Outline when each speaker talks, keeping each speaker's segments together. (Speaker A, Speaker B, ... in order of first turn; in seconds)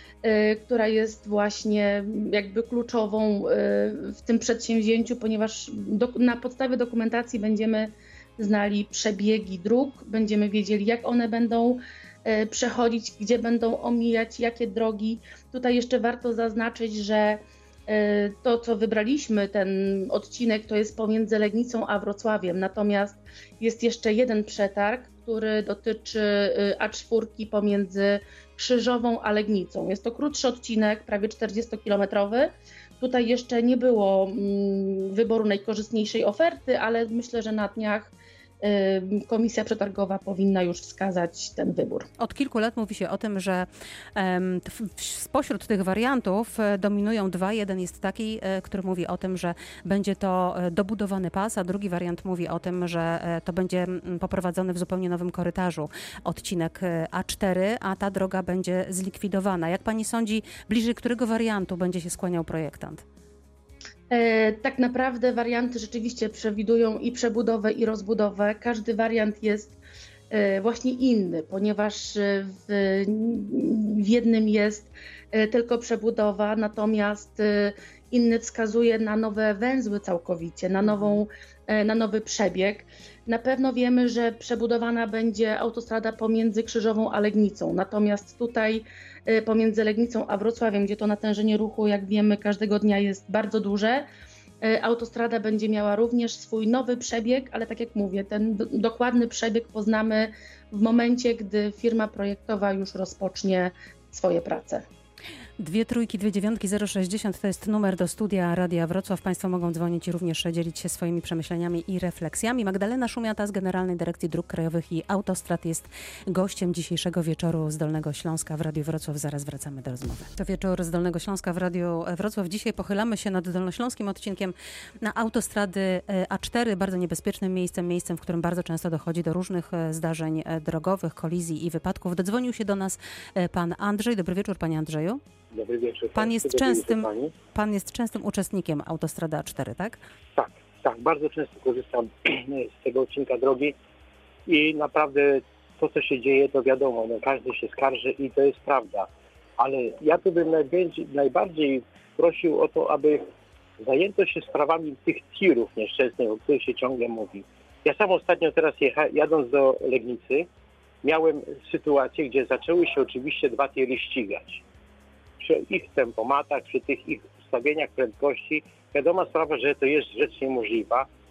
Speaker A: 0.2-42.1, 64.1-69.8, 70.3-94.0, 94.6-104.8
Speaker B: 42.2-63.0, 105.6-135.2, 136.1-140.0
Speaker C: 135.5-137.3, 140.3-143.7, 144.5-153.3, 153.8-160.5, 161.0-164.6, 165.4-171.1